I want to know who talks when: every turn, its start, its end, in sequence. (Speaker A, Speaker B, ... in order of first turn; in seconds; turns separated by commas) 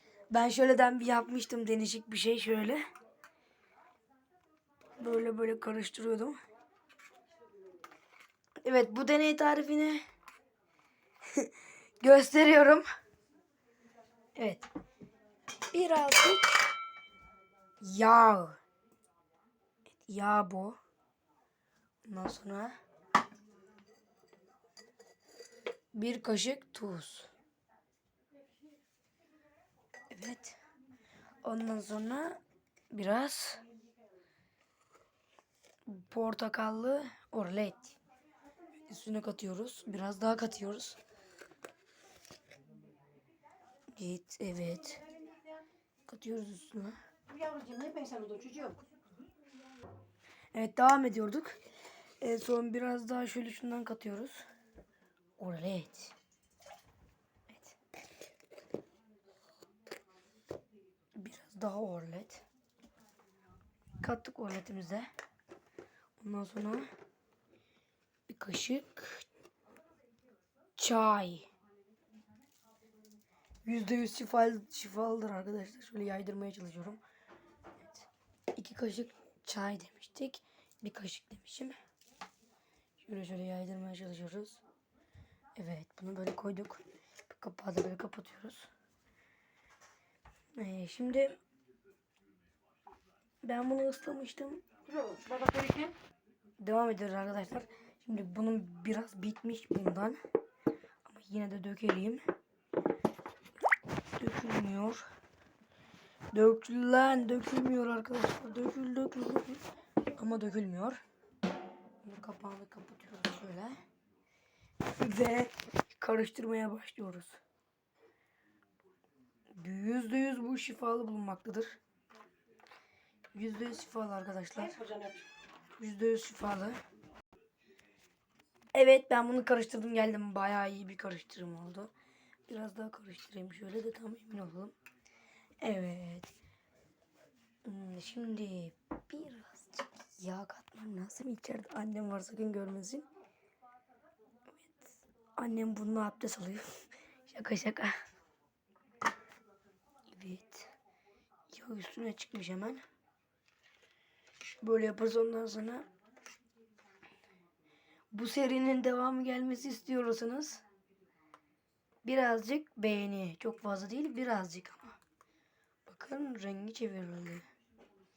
Speaker A: 0.3-2.8, Speaker A: 5.0-6.4, Speaker A: 8.6-10.0, Speaker A: 11.2-12.9, Speaker A: 14.4-14.7, Speaker A: 15.7-16.6, Speaker A: 17.8-18.6, Speaker A: 20.0-20.8, Speaker A: 22.1-22.8, Speaker A: 25.9-27.3, Speaker A: 30.1-30.6, Speaker A: 31.4-32.4, Speaker A: 32.9-33.6, Speaker A: 35.9-38.0, Speaker A: 38.9-41.0, Speaker A: 44.0-45.0, Speaker B: 45.1-45.6, Speaker A: 46.1-47.0, Speaker B: 47.3-48.8, Speaker A: 50.5-51.6, Speaker A: 52.2-54.5, Speaker A: 55.4-56.1, Speaker A: 57.5-57.8, Speaker A: 61.2-62.5, Speaker A: 64.0-65.1, Speaker A: 66.2-66.9, Speaker A: 68.3-69.3, Speaker A: 70.8-71.5, Speaker A: 73.7-77.0, Speaker A: 77.8-81.8, Speaker A: 83.0-84.6, Speaker A: 85.6-88.7, Speaker A: 90.6-91.4, Speaker A: 93.4-94.6, Speaker B: 94.9-96.0, Speaker A: 96.6-100.2, Speaker A: 101.0-102.2, Speaker A: 104.2-105.0, Speaker A: 106.3-109.6, Speaker A: 110.2-111.0, Speaker A: 112.0-113.8, Speaker A: 114.8-117.4, Speaker A: 119.5-121.8, Speaker A: 123.3-124.9, Speaker B: 124.6-125.3, Speaker A: 125.7-126.8, Speaker A: 128.7-131.9, Speaker A: 132.5-134.7, Speaker A: 135.6-136.3, Speaker A: 137.7-143.1, Speaker A: 144.5-147.9, Speaker A: 150.1-150.7, Speaker A: 151.5-152.8, Speaker A: 154.6-155.9, Speaker A: 158.1-160.6, Speaker A: 162.0-165.0, Speaker A: 165.9-167.4